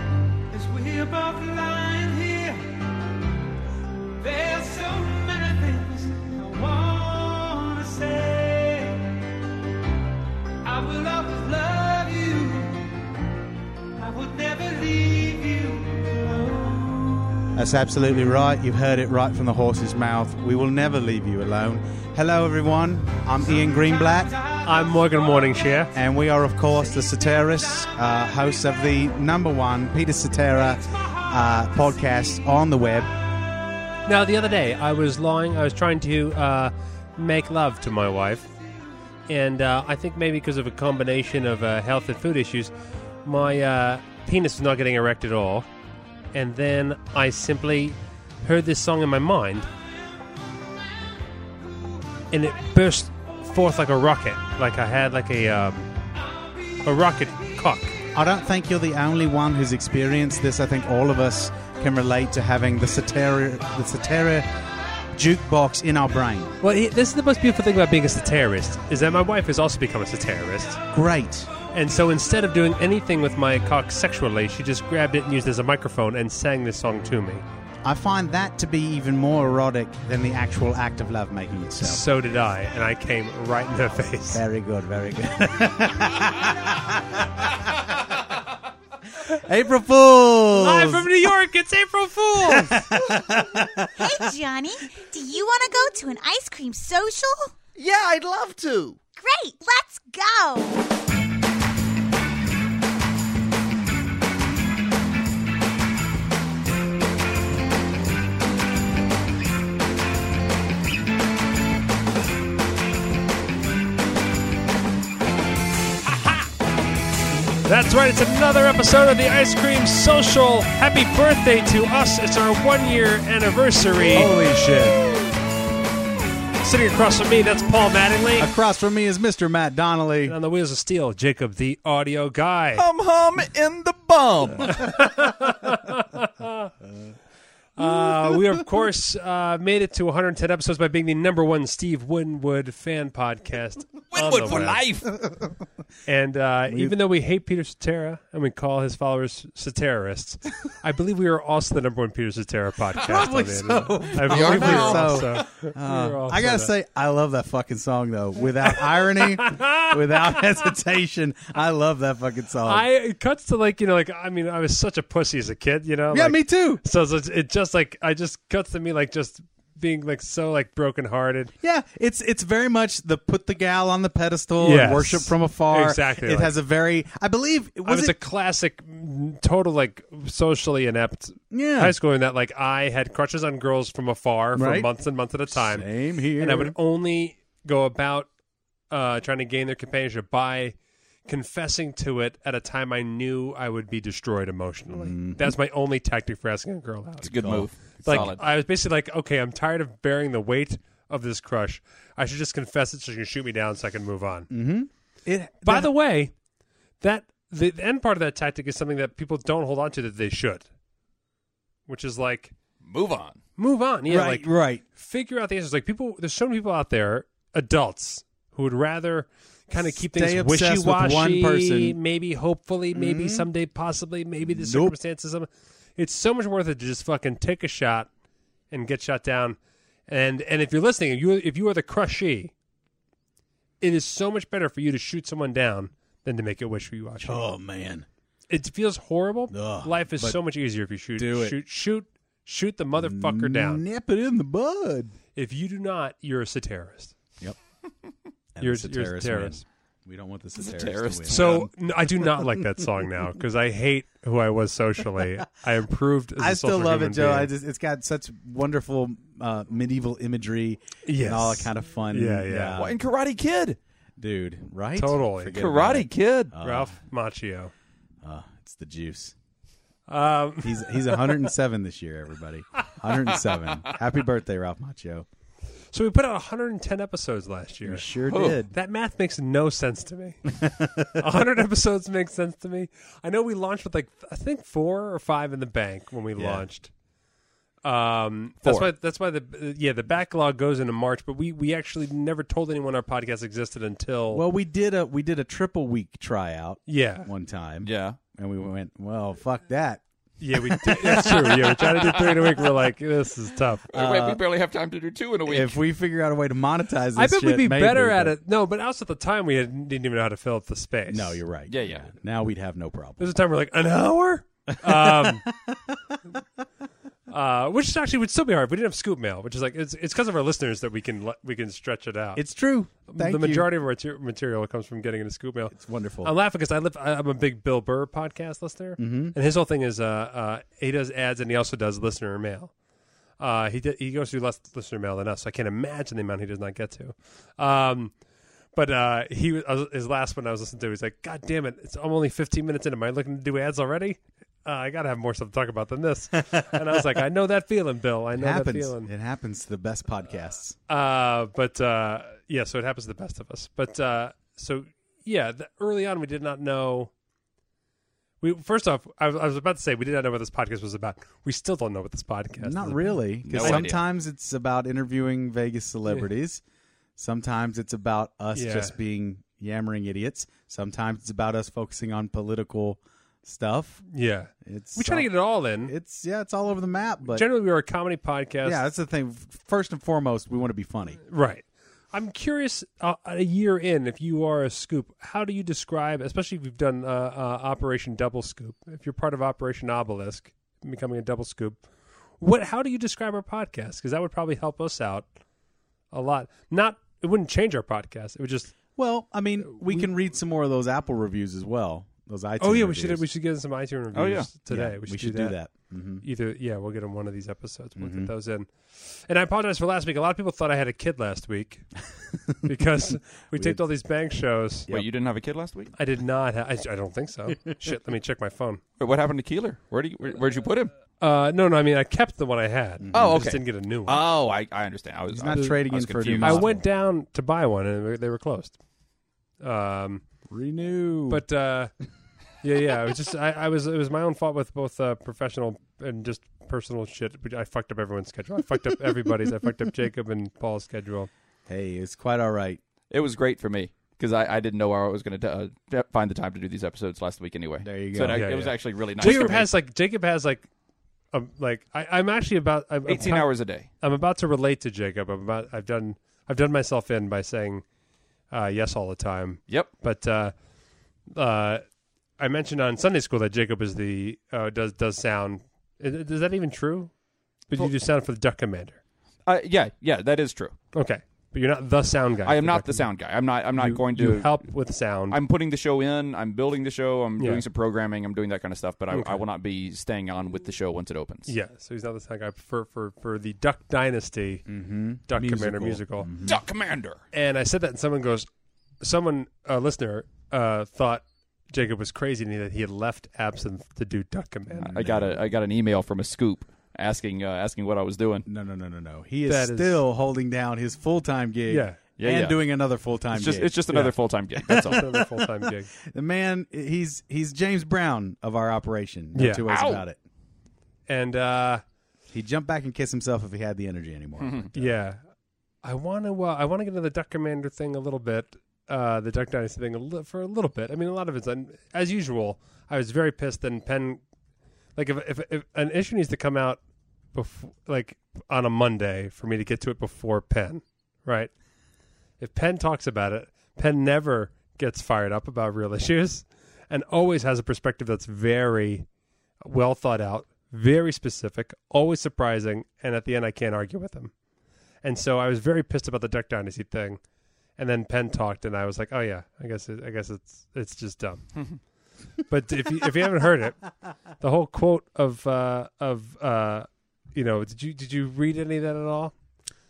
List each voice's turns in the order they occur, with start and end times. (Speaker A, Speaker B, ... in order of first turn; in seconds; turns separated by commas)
Speaker A: 0.5-2.5, Speaker B: 0.6-2.6, Speaker A: 4.2-6.0, Speaker B: 4.3-9.0, Speaker A: 7.5-8.5, Speaker B: 10.8-12.8, Speaker B: 14.2-16.9, Speaker C: 17.5-24.4, Speaker D: 24.6-25.9, Speaker C: 25.9-33.2, Speaker D: 34.1-38.5, Speaker D: 39.3-42.7, Speaker D: 43.2-45.7, Speaker D: 46.3-49.7, Speaker D: 52.3-55.9, Speaker D: 56.7-58.0, Speaker C: 58.1-64.5, Speaker C: 65.1-66.5, Speaker D: 66.6-70.8, Speaker C: 70.9-71.5, Speaker D: 71.7-77.4, Speaker C: 77.8-82.0, Speaker D: 81.8-84.5, Speaker C: 84.3-88.1, Speaker C: 89.2-91.3, Speaker D: 90.5-92.8, Speaker C: 92.4-94.3, Speaker E: 94.0-97.5, Speaker A: 97.8-99.0, Speaker E: 99.2-100.9, Speaker D: 117.6-124.4, Speaker C: 124.1-125.0, Speaker D: 126.6-128.5, Speaker C: 128.4-130.3, Speaker D: 130.3-132.8, Speaker A: 132.8-134.8, Speaker D: 134.7-136.7, Speaker D: 137.8-144.8, Speaker A: 144.1-145.2, Speaker D: 146.1-156.7, Speaker C: 146.7-147.0, Speaker C: 153.0-162.9, Speaker A: 154.2-155.4, Speaker D: 158.8-160.4, Speaker D: 162.6-171.5, Speaker C: 166.1-166.8, Speaker C: 171.6-178.1, Speaker D: 174.6-176.5, Speaker D: 177.9-185.9, Speaker C: 181.5-181.9, Speaker C: 184.6-184.9, Speaker C: 185.5-186.8, Speaker D: 186.4-188.3, Speaker D: 188.9-197.3, Speaker C: 194.9-195.5, Speaker A: 197.2-198.4, Speaker C: 197.2-198.3, Speaker D: 198.0-204.5, Speaker C: 204.5-205.9, Speaker D: 205.6-206.3, Speaker D: 207.0-210.7, Speaker D: 211.9-212.6, Speaker A: 212.8-213.4, Speaker D: 213.6-228.1, Speaker C: 214.1-214.8, Speaker C: 219.8-222.0, Speaker C: 222.9-223.5, Speaker C: 224.4-224.9, Speaker D: 228.7-232.5, Speaker D: 233.8-237.5, Speaker C: 237.2-238.1, Speaker D: 238.5-243.8, Speaker C: 239.5-240.4, Speaker C: 241.2-241.6, Speaker C: 243.0-245.1, Speaker D: 245.3-247.2, Speaker C: 248.6-251.7, Speaker D: 248.6-249.6, Speaker A: 250.6-251.7, Speaker D: 251.3-257.5, Speaker C: 256.4-263.0, Speaker D: 261.1-262.8, Speaker A: 262.8-263.8, Speaker C: 264.2-266.9, Speaker D: 265.0-265.6, Speaker A: 265.5-266.5, Speaker D: 266.6-267.7, Speaker C: 268.2-269.3, Speaker D: 270.1-271.4, Speaker C: 270.6-275.3, Speaker D: 275.9-278.1, Speaker C: 277.9-278.8, Speaker A: 278.3-278.6, Speaker D: 278.7-286.9, Speaker C: 286.4-286.7, Speaker D: 287.8-294.4, Speaker A: 288.6-288.9, Speaker C: 294.3-302.1, Speaker D: 296.9-297.3, Speaker A: 297.8-298.2, Speaker D: 300.4-303.8, Speaker A: 303.9-305.8, Speaker C: 303.9-304.4, Speaker C: 305.5-308.4, Speaker D: 307.1-311.4, Speaker C: 311.1-313.3, Speaker A: 311.7-312.1, Speaker D: 313.2-315.5, Speaker C: 314.7-316.2, Speaker D: 317.3-322.4, Speaker C: 322.4-323.7, Speaker D: 323.1-332.7, Speaker C: 325.7-326.3, Speaker C: 329.0-329.4, Speaker D: 333.4-338.1, Speaker D: 338.8-349.1, Speaker C: 348.4-350.8, Speaker D: 350.9-357.1, Speaker D: 358.4-363.9, Speaker C: 362.6-366.6, Speaker A: 363.5-364.0, Speaker C: 367.2-374.1, Speaker D: 368.6-368.9, Speaker D: 374.1-375.9, Speaker C: 374.6-375.3, Speaker C: 375.8-377.5, Speaker D: 377.3-378.8, Speaker C: 378.6-381.2, Speaker D: 381.3-391.8, Speaker D: 392.4-395.3, Speaker D: 396.1-398.8, Speaker C: 399.0-403.2, Speaker D: 399.7-400.1, Speaker D: 402.6-405.6, Speaker A: 404.1-404.5, Speaker C: 404.6-406.2, Speaker D: 406.2-411.9, Speaker C: 408.0-408.3, Speaker D: 412.6-414.9, Speaker C: 413.6-413.8, Speaker A: 414.9-415.9, Speaker D: 416.0-418.8, Speaker A: 419.0-420.9, Speaker D: 421.2-424.2, Speaker C: 423.0-423.4, Speaker A: 423.1-426.8, Speaker C: 425.3-426.8, Speaker D: 425.5-425.8, Speaker D: 426.4-428.8, Speaker D: 429.6-430.2, Speaker C: 430.5-431.4, Speaker D: 431.3-431.9, Speaker D: 432.6-441.3, Speaker C: 441.7-442.8, Speaker A: 443.1-449.7, Speaker C: 447.8-448.4, Speaker D: 448.3-450.7, Speaker D: 451.3-457.9, Speaker A: 453.1-453.9, Speaker D: 458.5-460.5, Speaker D: 461.3-461.8, Speaker D: 462.4-467.1, Speaker D: 467.7-469.0, Speaker A: 469.5-470.8, Speaker D: 470.9-473.1, Speaker A: 472.4-474.6, Speaker D: 473.8-475.4, Speaker A: 475.3-481.5, Speaker D: 477.4-477.6, Speaker D: 479.1-479.4, Speaker D: 481.5-484.6, Speaker C: 484.7-486.6, Speaker D: 485.3-486.3, Speaker A: 486.4-487.2, Speaker D: 487.3-488.5, Speaker D: 489.0-495.0, Speaker A: 494.8-498.5, Speaker C: 494.9-495.4, Speaker C: 498.5-503.8, Speaker D: 499.5-500.0, Speaker D: 501.7-502.0, Speaker A: 502.2-502.6, Speaker A: 503.3-505.1, Speaker D: 504.7-505.9, Speaker C: 504.7-505.0, Speaker C: 506.0-510.2, Speaker D: 509.4-509.6, Speaker A: 509.7-510.0, Speaker D: 511.1-511.8, Speaker C: 512.3-514.9, Speaker A: 514.4-514.7, Speaker D: 514.7-515.2, Speaker D: 515.8-524.2, Speaker D: 525.0-526.8, Speaker D: 527.3-531.5, Speaker D: 532.4-539.1, Speaker D: 539.6-544.3, Speaker D: 545.0-547.2, Speaker D: 547.8-551.6, Speaker D: 552.5-553.8, Speaker D: 554.4-559.4